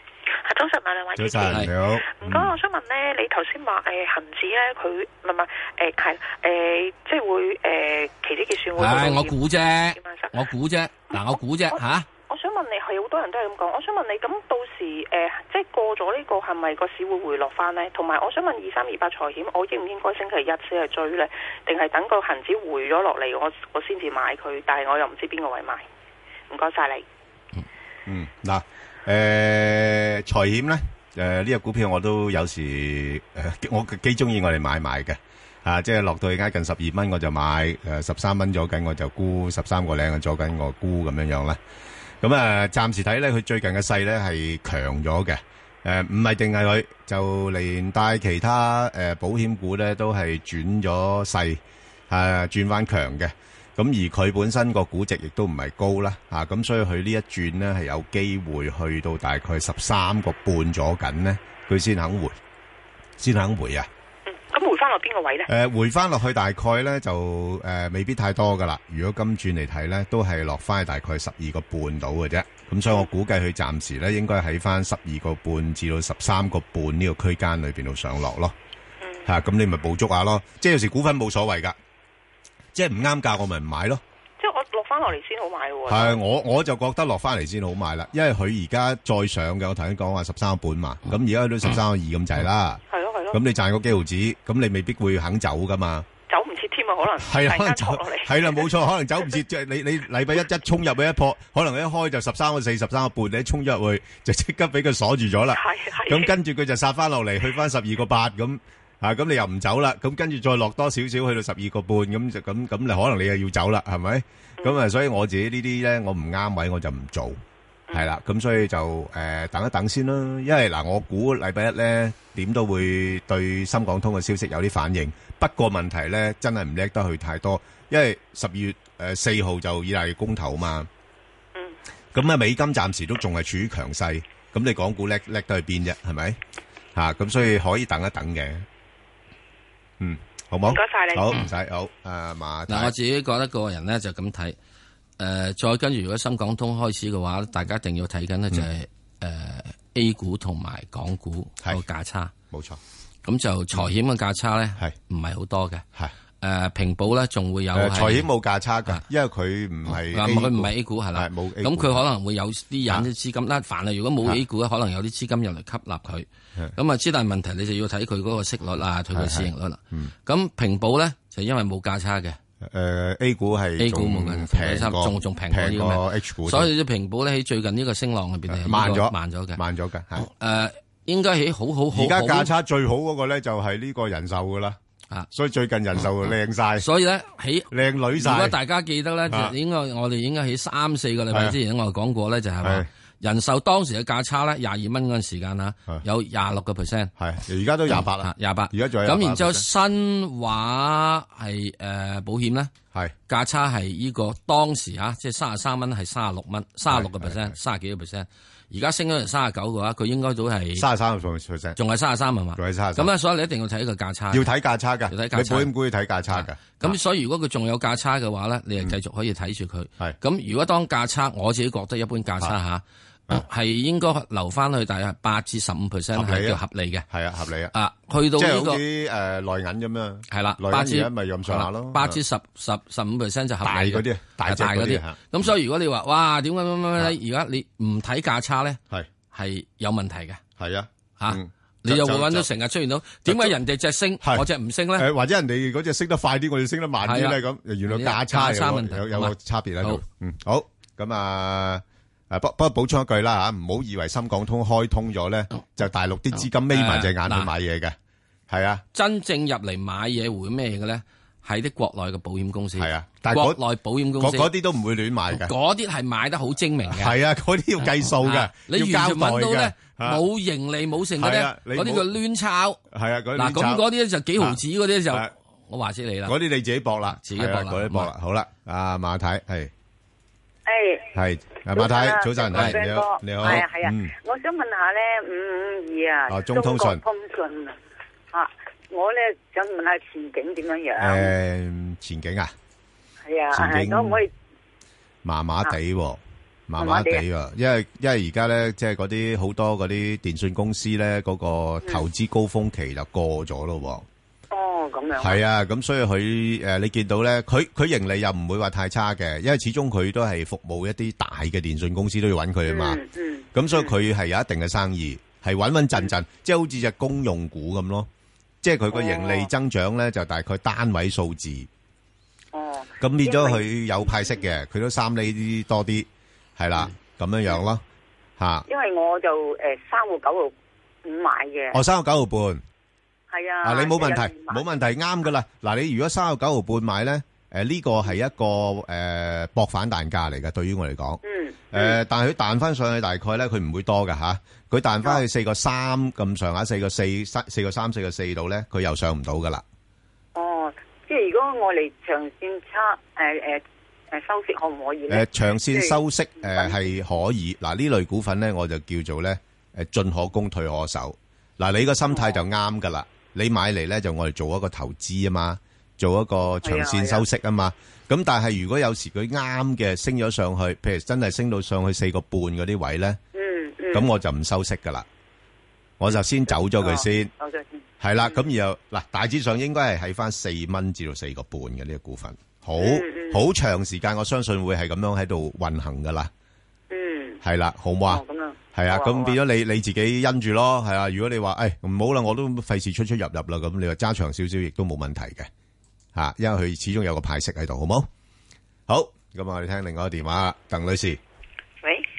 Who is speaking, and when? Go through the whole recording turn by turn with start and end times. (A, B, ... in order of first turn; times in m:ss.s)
0:00.4-0:10.3 A
0:01.2-0:02.6 B
0:01.5-0:01.7 C
0:08.8-0:12.1 C
0:11.1-0:25.8 A
0:26.5-0:27.0 A
0:28.1-0:41.6 B
0:42.2-1:02.4 B
1:03.2-1:03.9 B
1:04.3-1:05.5 A
1:05.5-1:18.6 B
1:19.3-1:21.8 B
1:22.7-1:24.0 B
1:24.4-1:26.2 A
1:25.9-1:36.1 B
1:32.9-1:33.4 A
1:36.3-1:38.6 A
1:37.2-1:57.4 B
1:45.5-1:46.3 A
1:57.9-2:10.9 B
2:12.1-2:16.4 B
2:17.0-2:18.7 B
2:20.0-2:22.9 B
2:20.7-2:21.4 A
2:22.7-2:24.6 C
2:25.2-2:32.3 C
2:32.5-2:32.8 B
2:33.2-2:35.8 C
2:36.4-2:38.3 C
2:37.7-2:42.0 B
2:39.9-2:52.4 C
2:49.1-2:50.1 B
2:52.6-2:56.7 B
2:53.8-2:59.6 C
2:58.5-3:00.3 B
3:00.2-3:02.5 C
3:01.9-3:04.8 B
3:05.3-3:06.9 B
3:06.8-3:17.1 C
3:07.7-3:08.6 B
3:09.3-3:09.6 B
3:11.3-3:11.6 B
3:12.6-3:12.9 B
3:17.2-3:19.6 B
3:17.9-3:22.7 C
3:23.3-3:30.9 C
3:26.9-3:27.6 B
3:30.8-3:31.8 B
3:31.8-3:34.5 C
3:32.6-3:33.1 B
3:34.3-3:37.0 B
3:35.1-3:35.7 C
3:36.3-3:47.1 C
3:46.1-3:47.7 B
3:47.7-3:48.8 C
3:48.4-3:52.2 B
3:50.3-3:58.8 C
3:53.6-3:55.2 B
3:59.3-4:00.4 C
4:00.6-4:02.5 B
4:01.2-4:05.1 C
4:03.3-4:03.6 B
4:05.0-4:18.0 B
4:07.0-4:10.0 C
4:16.7-4:17.5 C
4:18.5-4:18.8 B
4:18.9-4:24.5 C
4:22.8-4:23.6 B
4:24.2-4:25.5 B
4:25.3-4:27.2 C
4:26.9-4:30.2 B
4:28.2-4:32.8 C
4:31.2-4:32.1 B
4:32.9-4:33.8 B
4:33.4-4:36.4 C
4:36.2-4:39.7 B
4:37.2-4:38.1 C
4:40.7-4:41.1 D
4:41.1-4:44.1 B
4:41.7-4:47.8 D
4:46.3-4:47.0 B
4:48.3-4:51.3 D
4:51.0-4:52.5 B
4:53.3-4:54.3 D
4:53.5-4:54.2 B
4:55.2-5:04.0 B
4:56.8-4:57.2 D
5:04.5-5:05.4 D
5:05.2-5:13.0 B
5:12.7-5:13.9 D
5:13.5-5:18.1 B
5:18.6-5:21.7 B
5:18.9-5:19.5 D
5:22.5-5:24.5 D
5:23.0-5:27.8 B
5:28.4-5:28.7 B
5:28.7-5:30.5 D
5:31.0-5:31.8 D
5:31.7-5:32.6 B
5:33.3-5:34.6 D
5:33.6-5:41.2 B
5:41.2-5:42.0 D
5:41.7-5:49.6 B
5:50.4-5:56.8 D
5:55.1-6:13.2 B
6:02.1-6:02.4 D
6:06.6-6:07.2 D
6:13.3-6:14.1 D
6:13.9-6:15.1 B
6:16.0-6:17.3 B
6:16.1-6:18.4 D
6:18.0-6:26.3 B
6:22.8-6:23.4 D
6:26.9-6:27.4 D
6:27.4-6:28.2 B
6:28.1-6:29.4 D
6:28.7-6:35.5 B
6:36.2-6:38.1 B
6:38.9-6:41.2 B